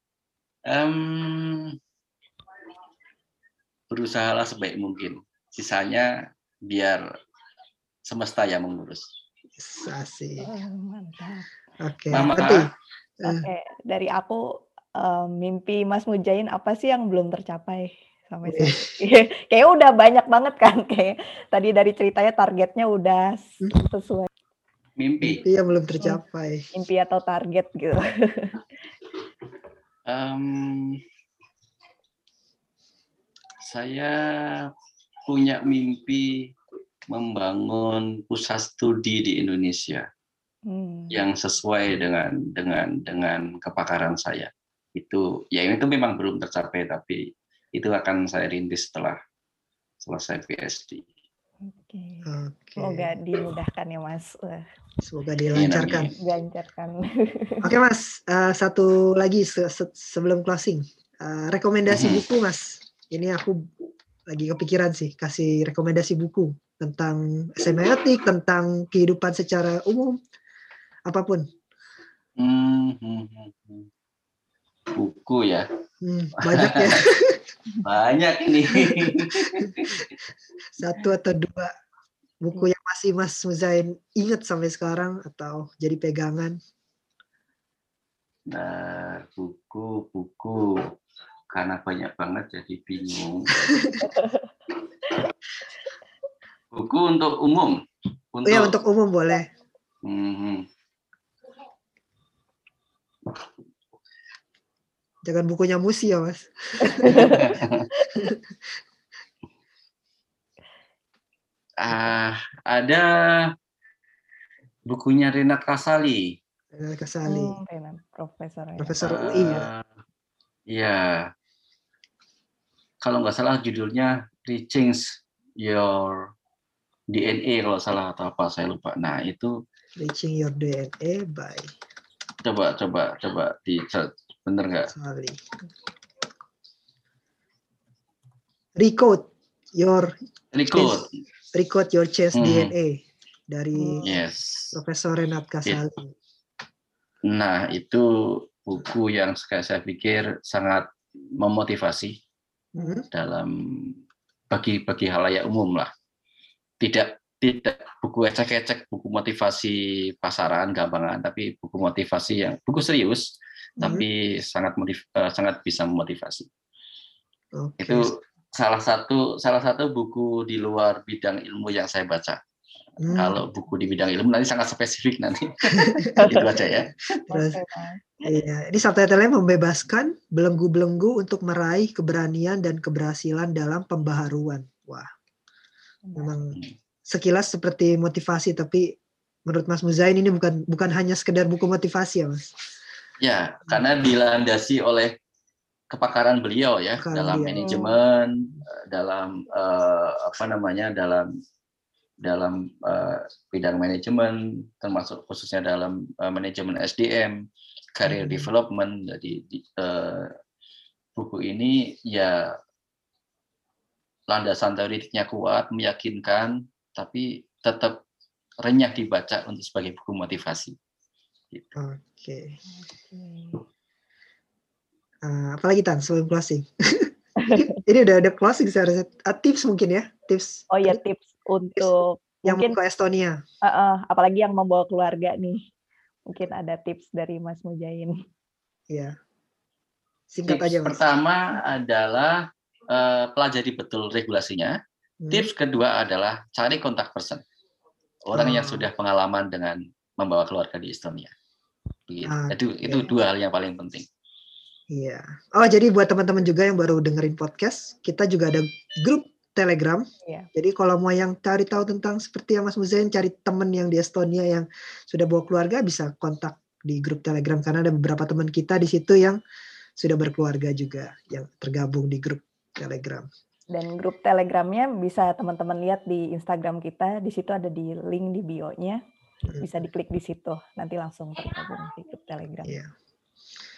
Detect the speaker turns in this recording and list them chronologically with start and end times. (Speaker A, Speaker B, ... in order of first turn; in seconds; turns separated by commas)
Speaker A: 0.7-1.7, Speaker A: 3.9-6.2, Speaker A: 6.7-7.0, Speaker A: 8.1-9.1, Speaker B: 9.6-10.5, Speaker C: 10.4-11.5, Speaker B: 11.8-12.7, Speaker A: 12.1-12.7, Speaker B: 13.2-13.5, Speaker C: 13.2-24.3, Speaker B: 18.4-18.8, Speaker A: 25.0-25.4, Speaker B: 25.2-26.6, Speaker C: 26.7-28.6, Speaker A: 30.1-31.0, Speaker A: 33.6-34.7, Speaker A: 35.3-36.5, Speaker A: 37.1-40.1, Speaker C: 40.6-41.1, Speaker A: 41.1-49.2, Speaker A: 50.0-51.0, Speaker C: 51.7-54.7, Speaker B: 52.2-53.1, Speaker B: 55.0-56.1, Speaker A: 55.5-56.1, Speaker C: 56.2-57.7, Speaker B: 57.6-63.7, Speaker A: 61.9-62.2, Speaker B: 64.3-70.2, Speaker B: 71.1-71.5, Speaker A: 72.4-73.9, Speaker A: 74.9-75.7, Speaker B: 76.0-77.4, Speaker A: 76.4-77.0, Speaker A: 77.8-80.1, Speaker B: 78.8-79.7, Speaker B: 80.8-81.7, Speaker B: 82.4-86.6, Speaker A: 88.5-90.8, Speaker A: 91.5-94.0, Speaker B: 93.7-94.0, Speaker C: 94.1-94.4, Speaker A: 96.7-97.8, Speaker A: 98.3-98.7, Speaker B: 98.5-99.5, Speaker A: 100.0-100.7, Speaker B: 105.2-107.4, Speaker C: 106.8-107.5, Speaker A: 107.0-107.9, Speaker A: 111.8-113.5, Speaker A: 114.9-116.4, Speaker B: 116.7-117.6, Speaker C: 117.2-119.0, Speaker B: 118.8-119.7, Speaker A: 119.0-119.9, Speaker A: 120.7-121.3, Speaker A: 123.0-126.3, Speaker A: 127.1-129.5, Speaker B: 129.9-131.7, Speaker A: 132.4-134.9, Speaker B: 134.9-135.4, Speaker B: 138.8-140.1, Speaker A: 140.5-141.1, Speaker B: 140.7-144.1, Speaker A: 142.3-142.7, Speaker C: 143.7-144.1, Speaker A: 144.0-144.8, Speaker B: 144.7-146.1, Speaker A: 147.3-150.8, Speaker A: 151.4-152.2, Speaker B: 152.7-153.1, Speaker A: 153.1-153.9, Speaker A: 154.5-155.9, Speaker A: 156.8-163.2, Speaker A: 163.8-166.5, Speaker B: 167.5-168.1, Speaker A: 167.8-172.4, Speaker B: 173.0-173.4, Speaker A: 173.1-176.9, Speaker B: 175.8-177.6, Speaker C: 176.2-176.4, Speaker C: 177.3-178.4, Speaker B: 178.2-185.1, Speaker C: 186.0-186.4, Speaker B: 186.2-192.5, Speaker A: 193.2-195.1, Speaker A: 195.9-201.3, Speaker B: 197.0-197.6, Speaker C: 197.6-198.0, Speaker A: 202.2-207.4, Speaker A: 207.9-210.3, Speaker B: 208.1-208.5, Speaker A: 211.2-212.5, Speaker A: 214.3-218.0, Speaker A: 218.6-220.8, Speaker B: 221.8-222.6, Speaker C: 222.8-223.6, Speaker B: 225.2-231.0, Speaker C: 227.4-227.8, Speaker C: 230.7-232.8, Speaker B: 232.4-233.4, Speaker C: 233.6-235.7, Speaker C: 236.3-238.2, Speaker B: 240.3-241.0, Speaker A: 240.4-244.8, Speaker B: 245.2-245.5, Speaker A: 245.3-247.4, Speaker A: 248.2-251.3, Speaker B: 248.3-248.9, Speaker A: 252.1-254.1, Speaker B: 252.2-253.1, Speaker B: 254.9-269.4, Speaker B: 270.0-273.3, Speaker C: 273.7-279.0, Speaker B: 279.5-279.8, Speaker C: 279.6-282.7, Speaker B: 282.6-282.9